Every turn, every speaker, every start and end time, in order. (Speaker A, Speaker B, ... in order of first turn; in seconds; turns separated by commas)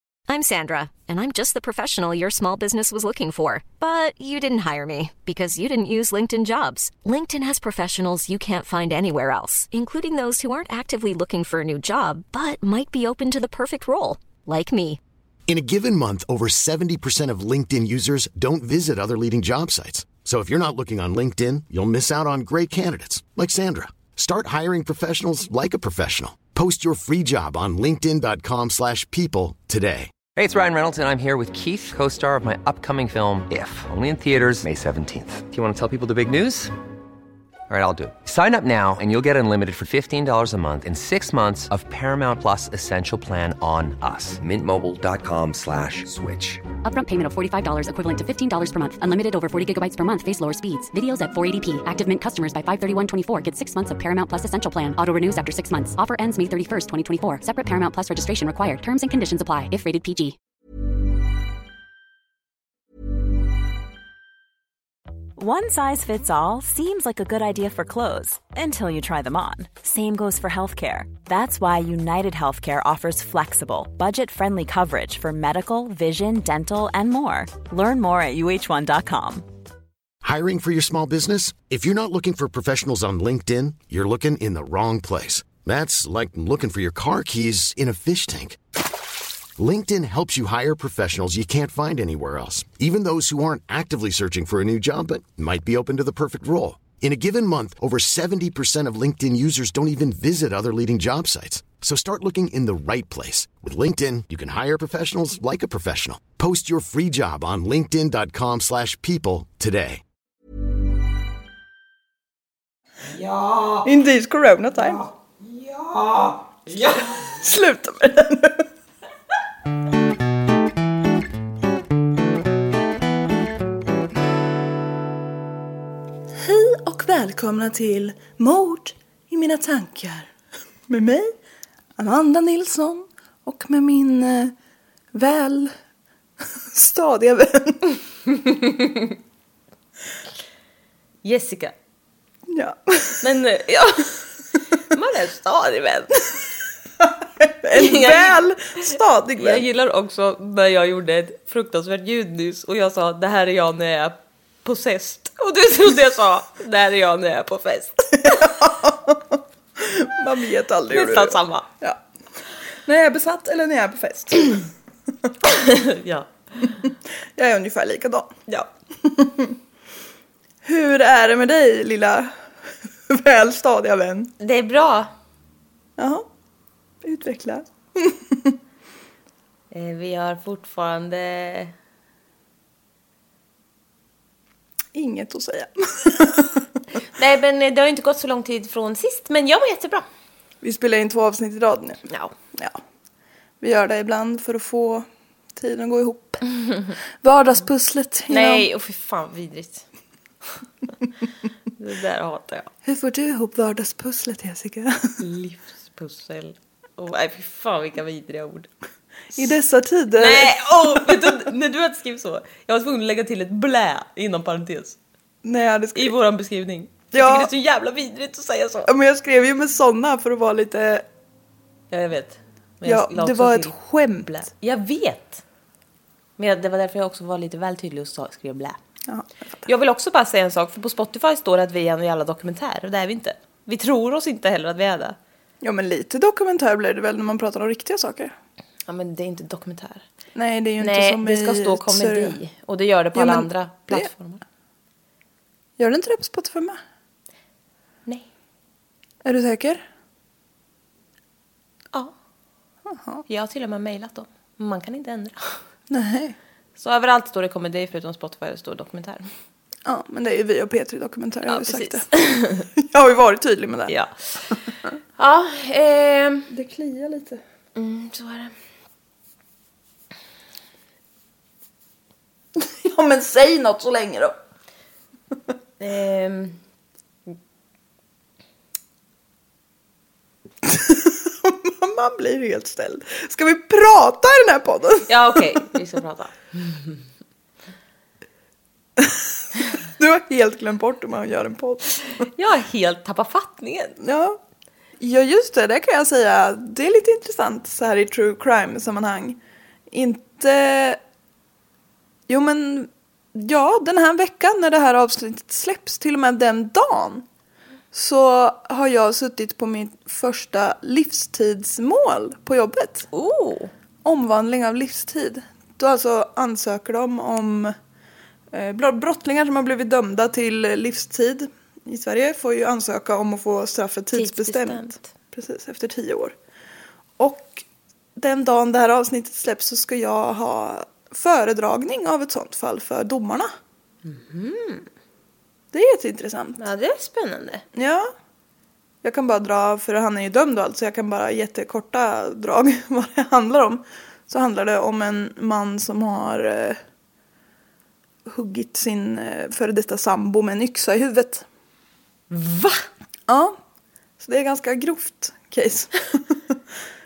Speaker A: 0.3-15.0, Speaker B: 15.5-30.1, Speaker C: 30.4-36.7, Speaker C: 37.7-46.6, Speaker D: 46.8-60.4, Speaker E: 65.4-79.5, Speaker B: 80.2-88.6, Speaker B: 89.6-110.0, Speaker C: 113.3-113.7, Speaker F: 113.8-115.1, Speaker C: 115.7-116.3, Speaker F: 116.8-118.7, Speaker F: 126.3-130.3, Speaker F: 130.9-131.3, Speaker F: 132.0-134.5, Speaker F: 135.1-135.7, Speaker F: 136.7-138.0, Speaker G: 138.5-139.1, Speaker G: 141.2-141.8, Speaker F: 142.5-143.2, Speaker G: 143.2-144.2, Speaker G: 144.8-146.4, Speaker F: 147.4-149.7, Speaker G: 147.7-148.4, Speaker G: 149.4-158.6, Speaker F: 158.2-162.0, Speaker G: 160.9-161.7, Speaker F: 162.9-164.7, Speaker G: 165.4-166.7, Speaker F: 166.9-168.4, Speaker F: 169.0-169.6, Speaker F: 170.6-172.3, Speaker F: 173.1-174.3, Speaker G: 174.4-175.1, Speaker F: 176.0-176.3, Speaker F: 177.0-178.6, Speaker G: 179.7-181.7, Speaker F: 184.9-186.6, Speaker G: 187.0-190.1, Speaker F: 190.6-192.8, Speaker F: 193.6-196.6, Speaker F: 197.2-198.7, Speaker G: 198.3-199.9, Speaker G: 201.8-202.7, Speaker F: 202.8-205.1, Speaker G: 205.2-208.7, Speaker F: 209.3-211.4, Speaker G: 210.2-215.0, Speaker F: 215.4-216.1, Speaker G: 215.9-218.9, Speaker F: 217.1-217.5, Speaker F: 218.9-221.1, Speaker G: 221.9-223.8, Speaker F: 222.8-224.5, Speaker G: 224.3-225.4, Speaker G: 226.4-228.8, Speaker F: 229.1-229.7, Speaker G: 229.7-235.2, Speaker F: 235.6-238.3, Speaker G: 238.9-240.1, Speaker F: 240.3-242.4, Speaker G: 240.8-244.4, Speaker F: 243.2-244.1, Speaker F: 245.8-246.8, Speaker F: 249.2-249.8, Speaker F: 252.9-253.2, Speaker G: 253.3-255.6, Speaker F: 255.9-256.4, Speaker G: 256.8-259.3, Speaker F: 259.9-262.1, Speaker G: 261.5-262.7, Speaker F: 262.8-263.9, Speaker G: 263.9-264.6, Speaker G: 265.2-266.5, Speaker F: 266.5-267.4, Speaker G: 267.8-268.5, Speaker F: 272.6-274.4, Speaker G: 275.8-276.6, Speaker F: 280.6-285.4, Speaker G: 285.1-287.0, Speaker F: 289.0-292.0, Speaker G: 292.2-294.0, Speaker F: 294.0-294.4, Speaker F: 295.0-299.4, Speaker F: 299.9-301.0, Speaker F: 302.3-307.2, Speaker F: 307.9-313.1, Speaker G: 313.1-313.7, Speaker F: 314.0-317.8, Speaker F: 318.5-326.3, Speaker G: 324.1-325.1, Speaker F: 327.2-327.6, Speaker F: 328.2-333.5, Speaker G: 334.1-334.9, Speaker F: 335.7-336.6, Speaker G: 336.6-337.6, Speaker F: 337.8-338.1, Speaker F: 339.0-346.8, Speaker F: 348.3-351.4, Speaker G: 352.3-352.9, Speaker F: 353.3-353.6, Speaker F: 354.2-356.6